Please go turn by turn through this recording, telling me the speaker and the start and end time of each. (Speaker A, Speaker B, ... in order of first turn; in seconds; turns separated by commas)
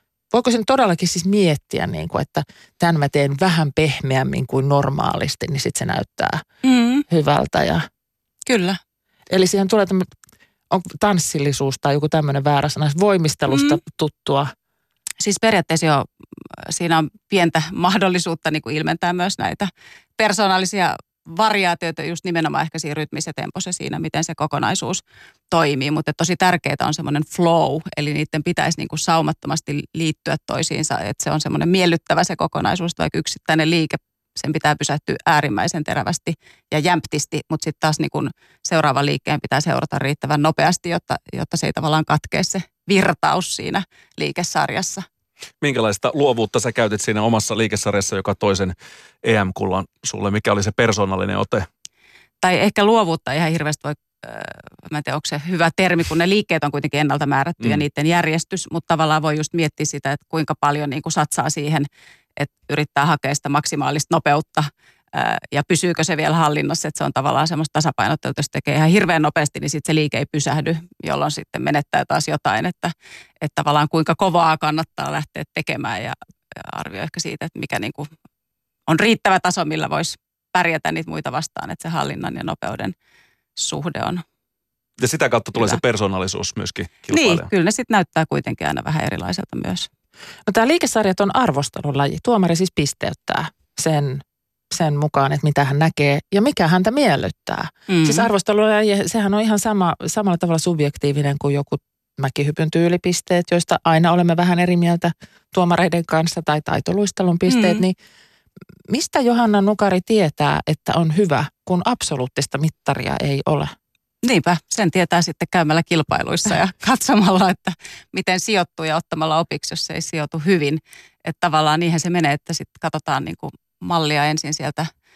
Speaker A: 0.3-6.4, Speaker B: 6.6-7.0, Speaker A: 7.1-7.8, Speaker B: 8.5-8.8, Speaker A: 9.3-10.1, Speaker A: 10.7-14.5, Speaker B: 13.5-13.8, Speaker B: 15.2-16.1, Speaker B: 16.6-45.0, Speaker C: 45.6-51.7, Speaker B: 52.4-78.1, Speaker B: 78.9-82.9, Speaker B: 83.6-84.2, Speaker C: 85.0-87.5, Speaker B: 87.1-89.9, Speaker A: 90.5-108.0, Speaker B: 97.9-98.3, Speaker B: 107.5-107.8, Speaker A: 108.9-113.7, Speaker B: 114.2-124.9